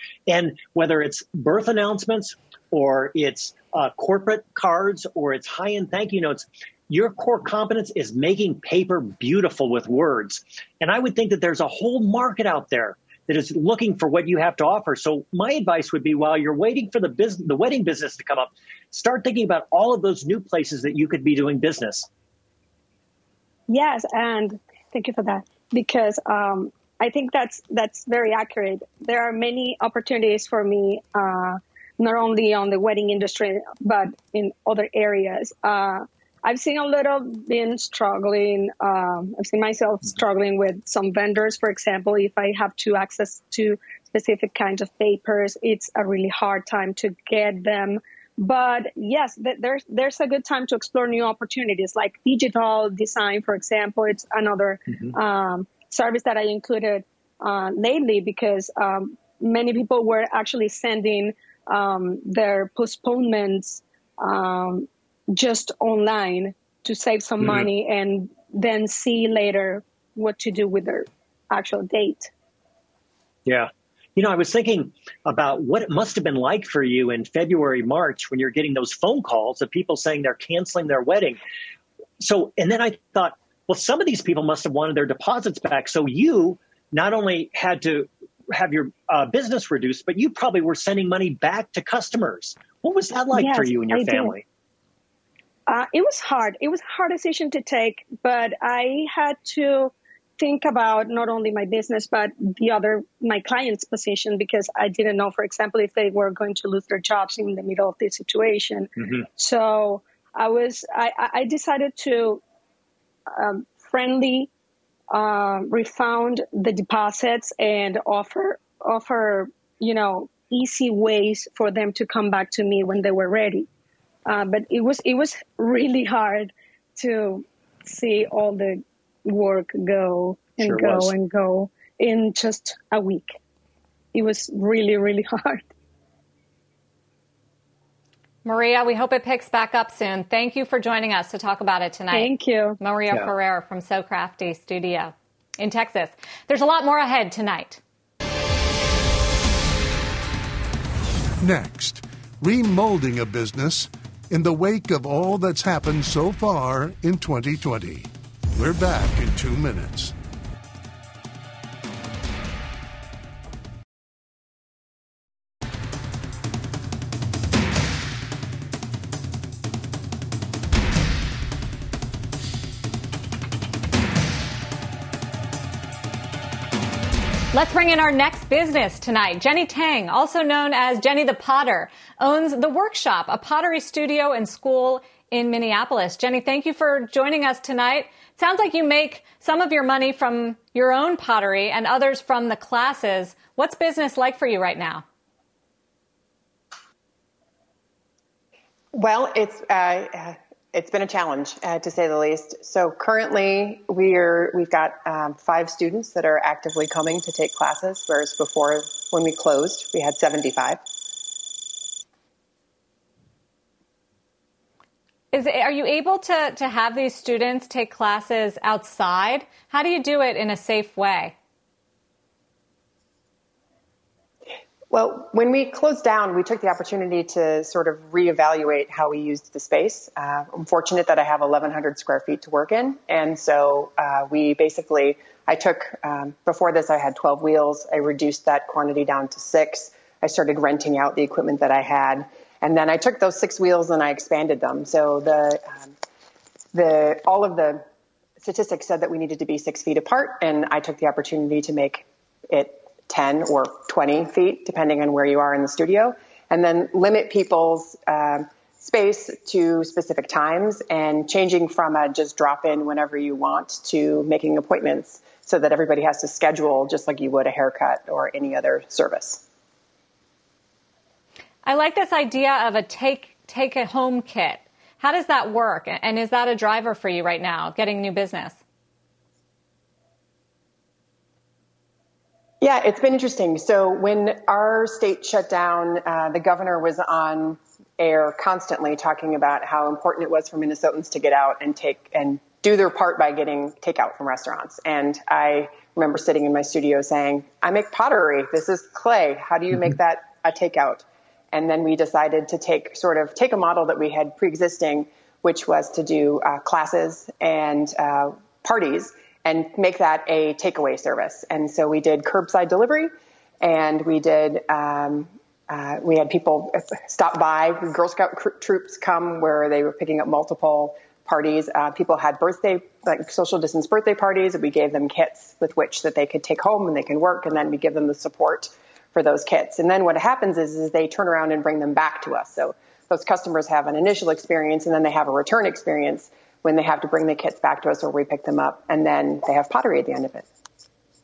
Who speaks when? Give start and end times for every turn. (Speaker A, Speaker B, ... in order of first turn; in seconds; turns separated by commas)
Speaker A: 0.3-22.1, Speaker B: 23.7-72.3, Speaker A: 67.4-67.7, Speaker A: 73.5-81.4, Speaker A: 82.2-94.4, Speaker B: 93.3-94.3, Speaker B: 95.7-112.4, Speaker B: 113.3-114.5, Speaker B: 115.1-123.7, Speaker B: 124.3-133.4, Speaker A: 130.5-131.1, Speaker B: 134.1-135.6, Speaker C: 138.4-147.8, Speaker B: 142.1-142.8, Speaker D: 151.4-160.1, Speaker C: 177.5-195.0, Speaker E: 198.9-210.8, Speaker C: 215.3-221.3, Speaker E: 224.9-245.9, Speaker E: 246.7-247.8, Speaker E: 248.4-269.4, Speaker C: 271.6-278.6, Speaker E: 282.6-340.4